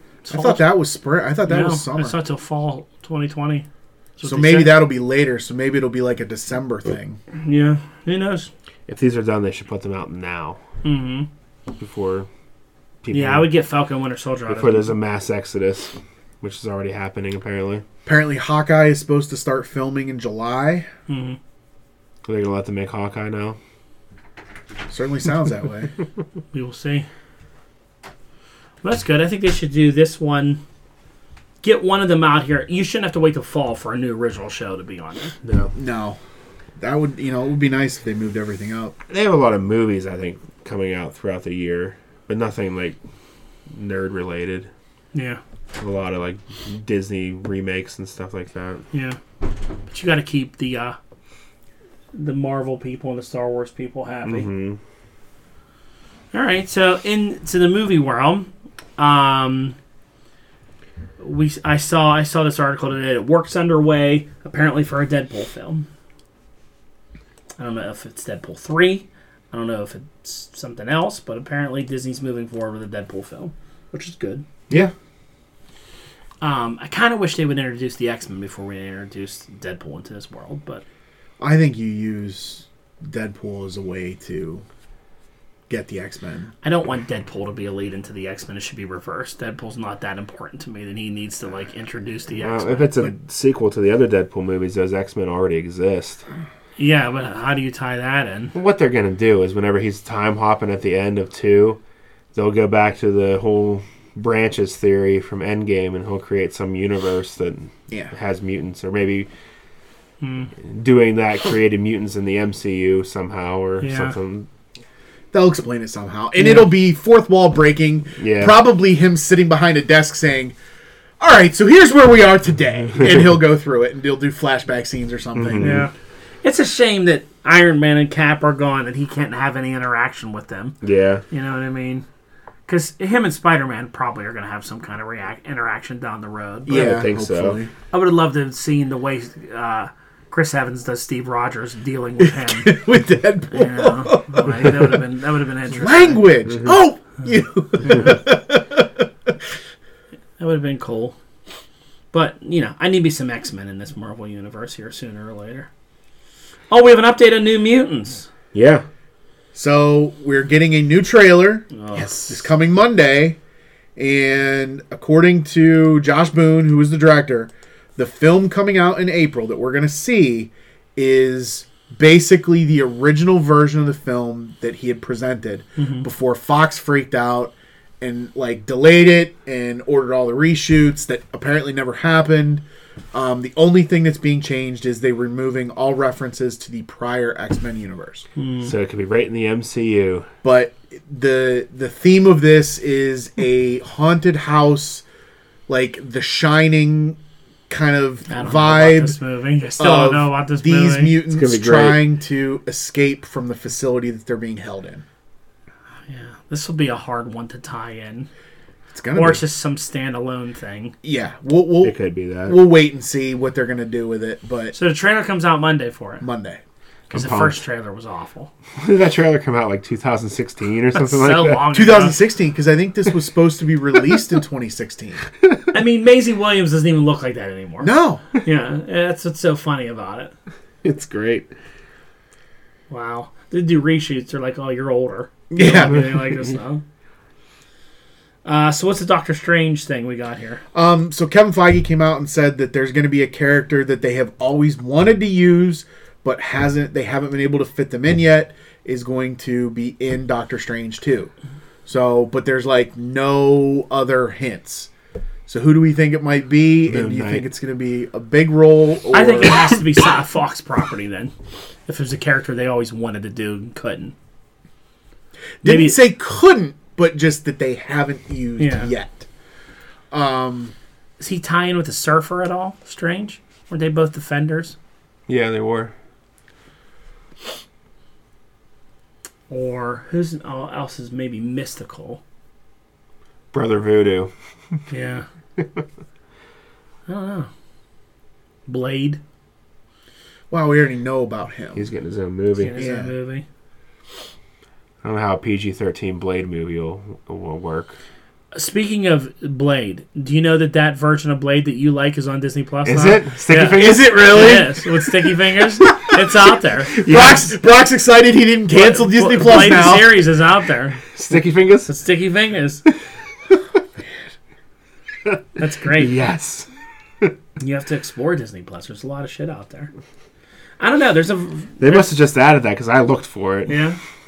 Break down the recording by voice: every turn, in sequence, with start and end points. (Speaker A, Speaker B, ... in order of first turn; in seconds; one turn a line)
Speaker A: 0.2-0.7
Speaker B: 0.3-2.1
Speaker A: 1.5-4.8
Speaker B: 4.2-7.2
Speaker A: 7.3-8.5
Speaker C: 8.9-10.6
Speaker A: 10.8-11.3
Speaker C: 11.8-12.3
Speaker C: 13.0-13.5
Speaker A: 13.1-14.9
Speaker C: 14.5-17.9
Speaker B: 18.1-20.9
Speaker A: 21.1-21.4
Speaker C: 22.3-23.6
Speaker B: 24.9-25.9
Speaker A: 26.5-27.1
Speaker A: 28.8-30.6
Speaker A: 31.6-35.4
Speaker C: 35.4-35.7
Speaker B: 35.7-36.2
Speaker B: 36.8-39.0
Speaker C: 39.1-43.0
Speaker C: 43.7-44.7
Speaker A: 45.1-45.4
Speaker C: 45.8-48.8
Speaker A: 48.9-49.2
Speaker A: 49.9-51.0
Speaker A: 52.1-54.5
Speaker C: 54.2-54.8
Speaker A: 56.3-59.8
Speaker A: 61.2-65.9
Speaker A: 67.6-74.5
Speaker A: 76.4-80.8
Speaker B: 81.4-84.6
Speaker B: 85.7-86.5
Speaker A: 86.6-93.1
Speaker C: 92.4-96.2
Speaker A: 96.8-98.5
Speaker C: 98.5-101.8
Speaker C: 102.3-109.3
Speaker A: 110.2-110.5
Speaker C: 110.6-114.5
Speaker A: 113.8-114.2
Speaker B: 115.3-120.6
Speaker A: 116.4-116.7
Speaker C: 118.2-118.6
Speaker B: 121.2-125.8
Speaker C: 125.4-125.9
Speaker A: 125.6-125.9
Speaker A: 126.4-130.8
Speaker C: 130.8-131.2
Speaker A: 131.3-132.1
Speaker A: 132.7-137.0
Speaker B: 136.7-137.7
Speaker C: 136.7-137.6
Speaker A: 137.9-142.8
Speaker B: 142.2-145.0
Speaker A: 143.5-146.3
Speaker B: 145.7-149.4
Speaker A: 150.4-151.2
Speaker A: 152.1-155.7
Speaker A: 156.7-158.3
Speaker C: 158.5-158.8
Speaker B: 159.5-163.4
Speaker A: 161.7-162.5
Speaker B: 164.0-188.3
Speaker A: 175.8-176.1
Speaker A: 188.4-188.7
Speaker C: 188.6-190.3
Speaker B: 190.4-195.1
Speaker B: 195.7-197.2
Speaker B: 197.7-199.2
Speaker A: 198.3-201.2
Speaker B: 199.8-205.0
Speaker C: 201.3-202.0
Speaker A: 206.1-208.3
Speaker B: 208.9-209.4
Speaker A: 209.1-210.9
Speaker B: 211.0-211.9
Speaker C: 211.8-212.6
Speaker B: 212.5-214.8
Speaker A: 214.7-216.2
Speaker B: 216.2-216.6
Speaker A: 217.1-218.5
Speaker C: 217.1-217.6
Speaker C: 218.8-221.7
Speaker A: 220.9-222.2
Speaker B: 221.7-225.2
Speaker A: 225.7-230.3
Speaker B: 227.8-228.2
Speaker C: 230.8-231.5
Speaker A: 232.9-236.8
Speaker B: 235.5-236.2
Speaker A: 238.4-240.6
Speaker B: 240.7-251.3
Speaker B: 251.9-254.9
Speaker B: 255.5-259.7
Speaker C: 256.9-257.5
Speaker A: 259.1-261.3
Speaker A: 261.9-264.1
Speaker B: 265.6-269.3
Speaker A: 265.6-266.0
Speaker A: 268.6-268.9
Speaker B: 270.1-270.7
Speaker A: 271.2-274.8
Speaker C: 275.3-275.9
Speaker A: 279.5-282.2
Speaker C: 283.5-284.3
Speaker A: 284.9-285.2
Speaker A: 287.1-287.5
Speaker A: 288.7-289.2
Speaker B: 290.5-291.9
Speaker C: 291.8-292.8
Speaker A: 292.6-293.4
Speaker B: 292.8-293.1
Speaker C: 295.0-298.0
Speaker A: 298.5-307.0
Speaker C: 302.9-304.6
Speaker B: 303.8-305.2
Speaker B: 306.9-310.2
Speaker C: 307.0-307.5
Speaker A: 308.7-311.0
Speaker C: 311.1-311.9
Speaker A: 311.9-312.8
Speaker A: 315.6-316.2
Speaker C: 315.9-316.7
Speaker A: 317.6-319.9
Speaker A: 320.8-322.1
Speaker C: 321.8-323.8
Speaker A: 323.7-324.0